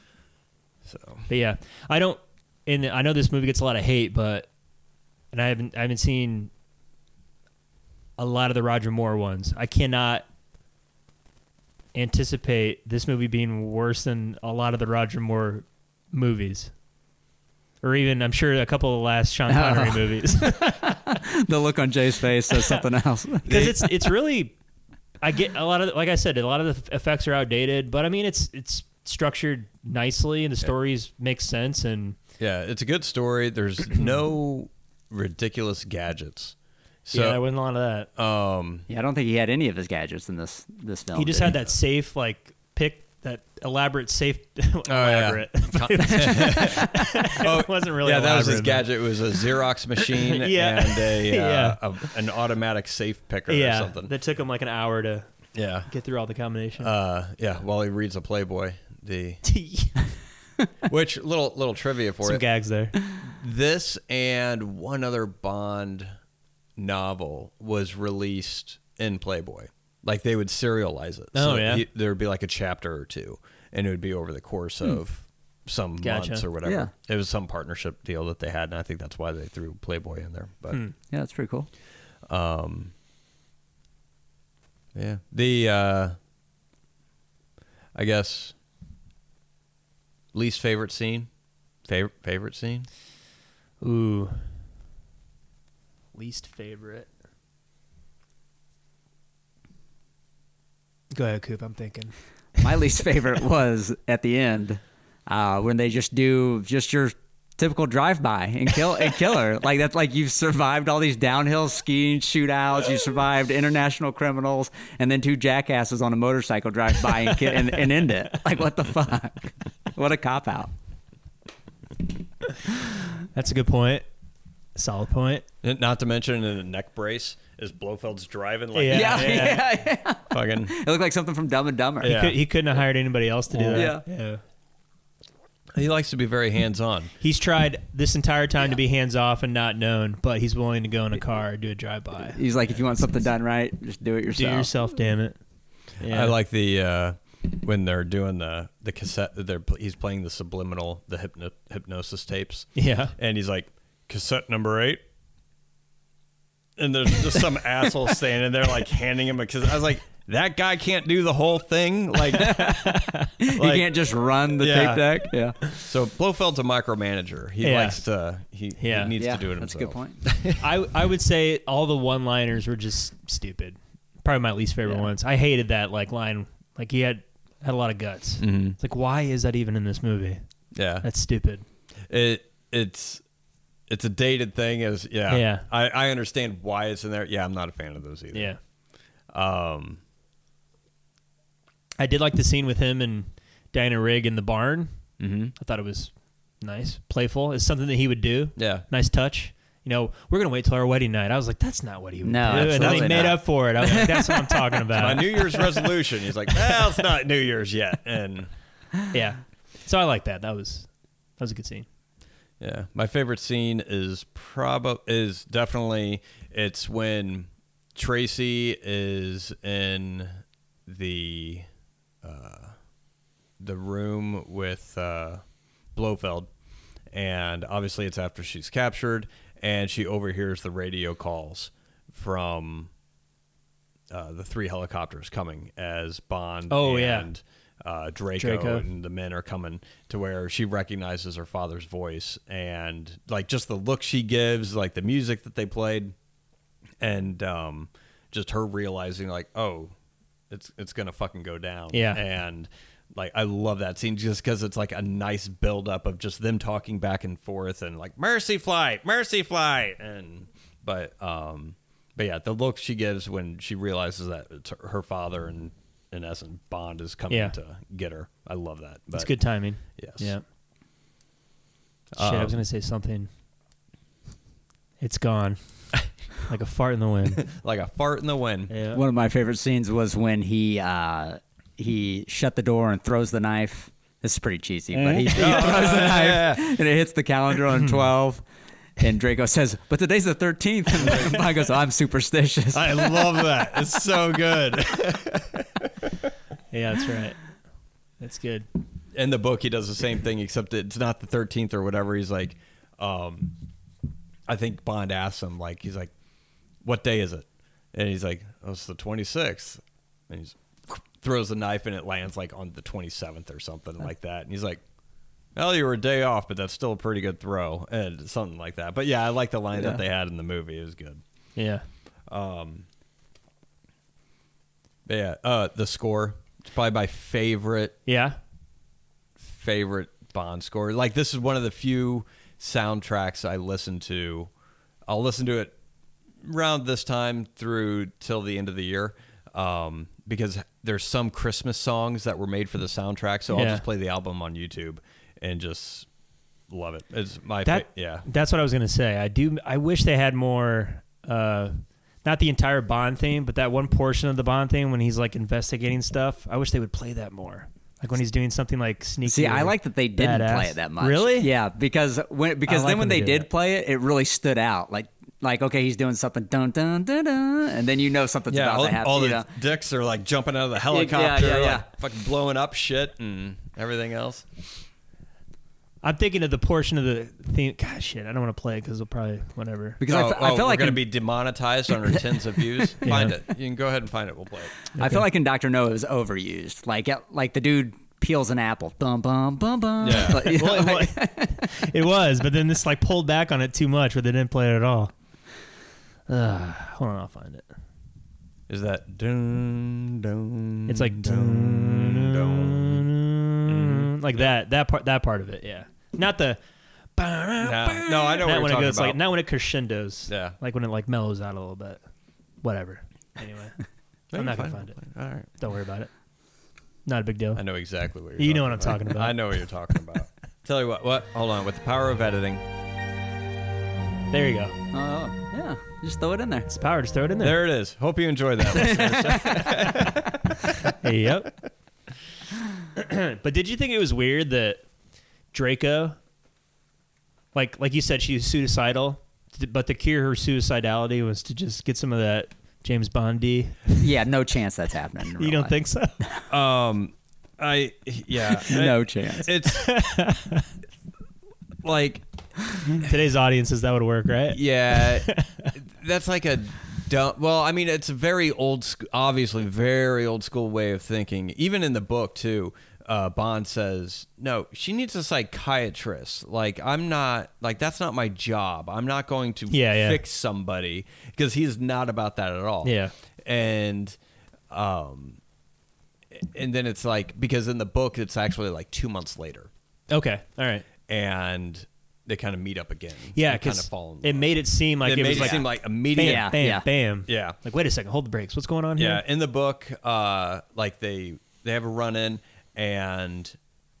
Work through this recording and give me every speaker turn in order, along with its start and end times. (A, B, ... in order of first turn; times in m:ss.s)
0:00.8-0:01.3 A
0:01.3-0:04.5 B
0:05.3-0:06.5 B
0:08.2-0:10.2 B
0:11.9-0:16.7 B
0:17.8-0:21.1 B
0:19.5-0:24.1 C
0:23.4-0:24.5 B
0:25.2-0:32.2 B
0:32.4-0:37.4 A
0:37.1-0:38.1 B
0:38.2-0:38.8 A
0:38.9-0:41.6 C
0:41.1-0:49.4 B
0:44.8-0:54.1 A
0:50.1-0:51.8 B
0:53.5-0:55.3 B
0:55.5-0:55.9 A
0:55.9-0:56.9 B
0:56.8-0:59.4 A
0:59.4-1:00.0 B
1:00.8-1:02.4 A
1:02.2-1:03.0 B
1:03.2-1:06.1 A
1:06.8-1:20.8 A
1:11.3-1:11.8 B
1:16.0-1:16.4 B
1:16.6-1:16.9 C
1:21.1-1:21.7 C
1:22.3-1:22.9 A
1:24.9-1:26.2 A
1:27.9-1:28.5 A
1:30.3-1:31.3 A
1:31.8-1:32.9 A
1:33.8-1:34.4 B
1:36.1-1:37.1 B
1:41.1-1:42.1 B
1:42.6-2:00.7 C
2:03.3-2:04.0 B
2:04.7-2:05.4 B
2:05.6-2:09.7 A
2:08.7-2:09.7 B
2:08.9-2:12.1 C
2:10.3-2:10.7 A
2:12.0-2:12.4 A
2:12.0-2:14.4 B
2:13.5-2:14.0 C
2:15.7-2:17.1 A
2:17.2-2:22.4 B
2:22.3-2:24.7 C
2:24.3-2:25.4 B
2:26.0-2:26.3 B
2:26.0-2:35.0 A
2:32.8-2:33.1 B
2:36.8-2:43.9 A
2:42.4-2:42.8 C
2:42.7-2:43.3 B
2:43.4-2:45.6 C
2:44.5-2:50.6 A
2:47.6-2:48.0 B
2:48.8-2:49.1 B
2:49.2-2:50.2 C
2:50.6-3:00.4 B
2:54.8-2:55.1 C
2:58.4-2:58.8 A
3:00.7-3:01.0 A
3:01.0-3:01.6 B
3:02.1-3:03.2 A
3:03.9-3:08.5 A
3:05.3-3:05.6 B
3:09.3-3:10.0 A
3:12.0-3:14.9 B
3:15.2-3:15.5 C
3:15.6-3:25.6 B
3:18.6-3:18.8 A
3:22.2-3:24.7 C
3:22.5-3:23.4 A
3:24.9-3:28.5 A
3:29.1-3:31.8 B
3:32.6-3:41.6 A
3:42.2-3:42.8 A
3:43.6-3:45.4 A
3:45.9-3:46.5 A
3:47.1-3:52.9 A
3:54.1-4:06.1 A
3:56.7-3:57.3 B
3:58.4-3:58.8 B
4:07.0-4:09.9 A
4:10.5-4:29.3 A
4:11.9-4:12.2 B
4:27.3-4:27.5 B
4:29.1-4:30.4 B
4:30.0-4:30.3 A
4:32.1-4:32.6 A
4:32.2-4:33.3 B
4:35.0-4:37.5 B
4:37.4-4:38.7 A
4:38.7-4:39.0 B
4:38.9-4:48.4 C
4:44.9-4:46.7 A
4:49.0-4:53.2 C
4:51.0-4:51.4 A
4:52.7-4:55.9 A
4:56.7-4:57.5 B
4:58.2-4:58.7 B
4:59.1-5:03.5 A
5:04.5-5:06.1 A
5:06.8-5:14.8 A
5:15.6-5:21.2 A
5:21.6-5:21.8 B
5:22.3-5:22.8 A
5:25.0-5:28.0 A
5:28.0-5:28.4 B
5:29.4-5:34.5 A
5:35.1-5:35.7 A
5:36.4-5:46.1 A
5:43.5-5:43.8 B
5:46.7-5:48.2 A
5:47.6-6:01.5 B
5:59.2-6:09.5 C
6:02.7-6:03.5 B
6:08.5-6:14.6 A
6:10.9-6:11.9 C
6:16.0-6:20.0 B
6:20.0-6:21.0 C
6:20.0-6:24.8 A
6:23.0-6:23.3 B
6:25.0-6:31.7 C
6:25.0-6:25.2 B
6:30.0-6:30.5 A
6:30.3-6:35.1 B
6:36.3-6:37.6 B
6:38.7-6:43.1 A
6:40.9-6:46.6 B
6:43.6-6:44.5 A
6:47.2-6:52.0 B
6:47.6-6:49.2 A
6:50.3-6:50.6 A
6:52.6-6:55.0 B
6:54.3-6:55.5 A
6:55.5-6:56.1 B
6:57.0-6:57.6 B
6:57.5-7:02.6 A
6:58.4-6:59.6 B
7:04.3-7:04.8 B
7:04.9-7:06.7 C
7:06.7-7:07.6 B
7:07.4-7:10.9 A
7:08.7-7:09.7 C
7:10.8-7:11.5 B
7:12.9-7:14.8 B
7:15.5-7:16.2 B
7:17.5-7:24.0 B
7:24.0-7:26.4 C
7:25.4-7:26.2 B
7:26.5-7:29.9 A
7:28.6-7:29.5 C
7:29.7-7:30.6 B
7:31.8-7:32.2 A
7:32.9-7:35.7 B
7:34.5-7:54.2 A
7:49.7-7:50.2 B
7:52.8-7:53.1 B
7:54.7-7:55.4 A
7:56.3-7:59.7 A
8:00.1-8:00.8 B
8:01.1-8:06.6 A
8:03.3-8:09.2 B
8:05.3-8:05.6 C
8:06.2-8:06.8 C
8:07.3-8:07.6 A
8:09.0-8:13.6 A